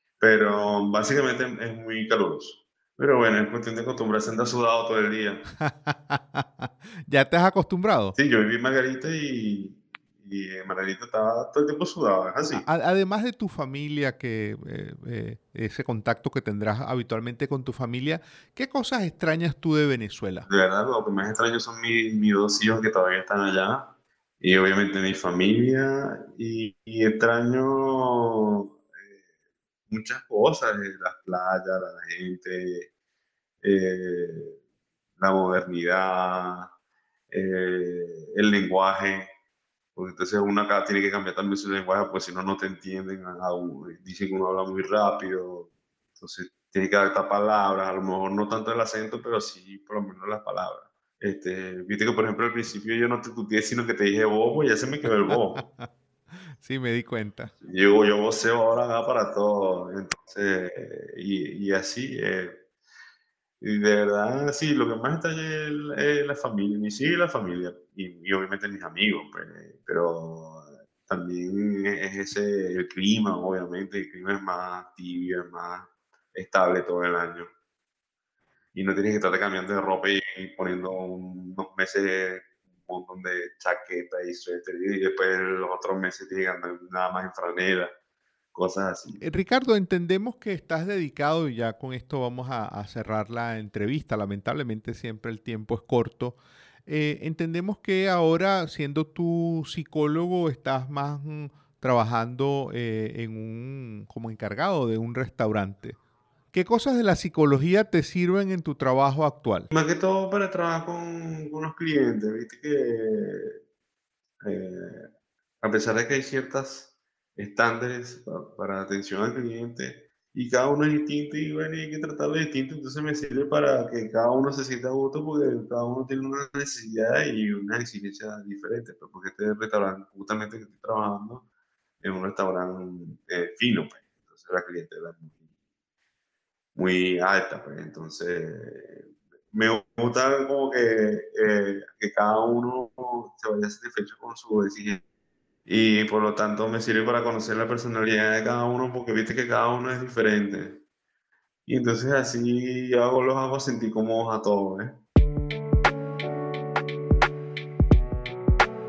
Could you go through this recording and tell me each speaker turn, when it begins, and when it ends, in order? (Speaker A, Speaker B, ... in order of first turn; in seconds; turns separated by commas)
Speaker A: 0.2-5.5, Speaker B: 5.6-8.2, Speaker A: 8.2-12.6, Speaker B: 12.5-20.5, Speaker A: 20.5-29.2, Speaker A: 29.9-32.9, Speaker A: 33.6-34.6, Speaker A: 35.2-36.7, Speaker A: 37.3-39.3, Speaker A: 39.9-55.6, Speaker B: 55.0-55.9, Speaker B: 56.5-57.5, Speaker A: 57.6-62.6, Speaker A: 63.6-77.5, Speaker A: 78.7-87.9, Speaker A: 88.5-89.2, Speaker B: 89.2-106.0, Speaker B: 106.5-109.7, Speaker A: 109.7-113.6, Speaker A: 114.4-115.1, Speaker A: 115.6-131.4, Speaker A: 132.0-135.4, Speaker A: 136.8-145.0, Speaker A: 145.7-150.8, Speaker A: 151.7-155.0